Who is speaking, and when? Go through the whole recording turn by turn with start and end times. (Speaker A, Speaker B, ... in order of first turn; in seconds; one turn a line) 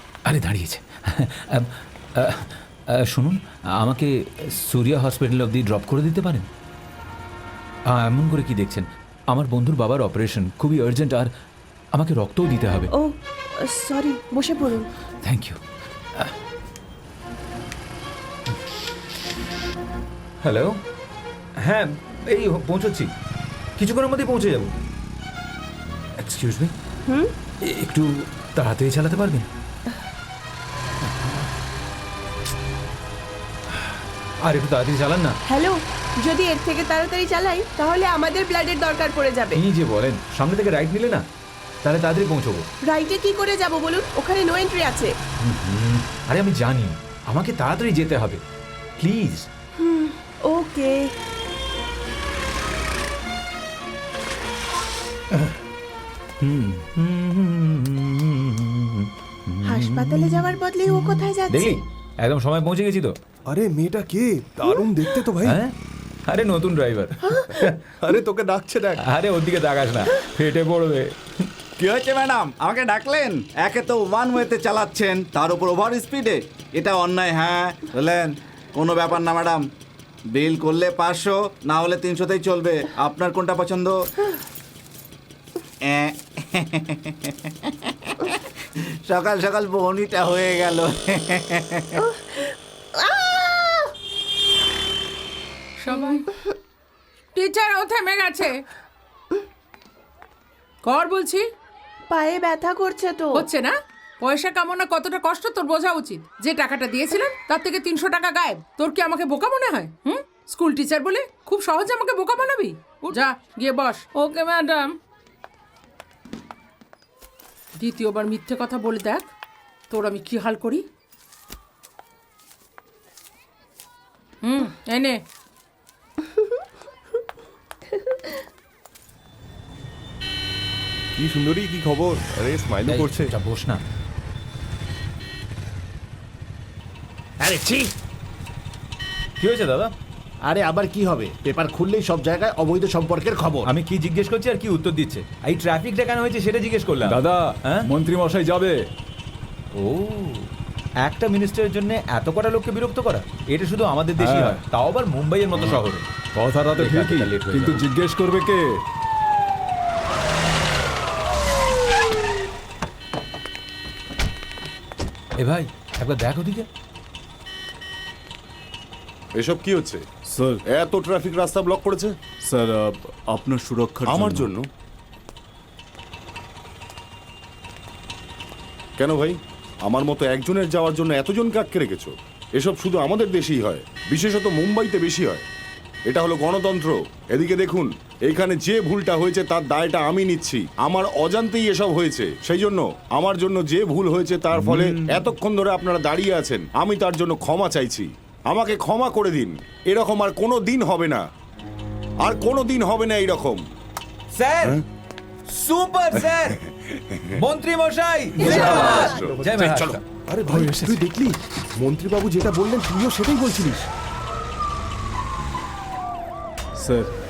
Speaker A: 0.2-6.5
Speaker A: 7.9-11.3
Speaker A: 11.9-12.9
Speaker B: 12.9-14.9
Speaker A: 15.2-15.6
Speaker A: 20.4-20.8
Speaker A: 21.6-23.1
Speaker A: 23.8-24.7
Speaker A: 26.2-26.7
Speaker B: 27.1-27.3
Speaker A: 27.6-29.5
Speaker A: 34.4-35.4
Speaker B: 35.5-39.6
Speaker A: 39.5-41.2
Speaker A: 41.8-42.6
Speaker B: 42.9-45.1
Speaker A: 45.4-48.4
Speaker A: 49.0-49.5
Speaker B: 49.8-51.1
Speaker A: 56.4-60.5
Speaker B: 59.6-61.8
Speaker A: 61.5-63.1
Speaker C: 63.5-65.6
Speaker A: 65.5-65.7
Speaker A: 66.3-67.7
Speaker B: 67.2-67.7
Speaker C: 68.0-69.0
Speaker A: 69.1-71.1
Speaker D: 71.8-79.7
Speaker D: 80.3-84.0
Speaker D: 85.8-87.3
Speaker D: 89.0-91.8
Speaker B: 92.0-93.9
Speaker E: 95.8-96.2
Speaker E: 97.3-98.5
Speaker E: 100.8-101.4
Speaker B: 102.1-103.4
Speaker E: 103.3-114.9
Speaker E: 117.8-119.3
Speaker E: 119.9-120.8
Speaker E: 124.4-125.2
Speaker C: 131.2-133.3
Speaker A: 132.9-133.8
Speaker F: 137.4-137.9
Speaker A: 139.4-139.9
Speaker F: 140.4-143.7
Speaker A: 143.7-147.8
Speaker G: 147.0-148.8
Speaker A: 149.8-150.5
Speaker A: 151.0-156.0
Speaker G: 154.2-154.6
Speaker G: 156.3-158.7
Speaker A: 156.8-157.8
Speaker A: 165.4-166.7
Speaker H: 169.3-170.0
Speaker I: 170.3-170.6
Speaker H: 170.7-172.1
Speaker I: 172.4-174.5
Speaker H: 174.0-174.6
Speaker H: 179.0-185.4
Speaker H: 186.1-201.2
Speaker G: 194.5-195.3
Speaker H: 202.2-203.6
Speaker A: 204.3-204.8
Speaker A: 205.5-206.6
Speaker H: 206.3-207.4
Speaker A: 207.4-210.0
Speaker B: 208.4-209.1
Speaker H: 208.4-210.0
Speaker C: 210.3-213.9
Speaker I: 216.8-217.1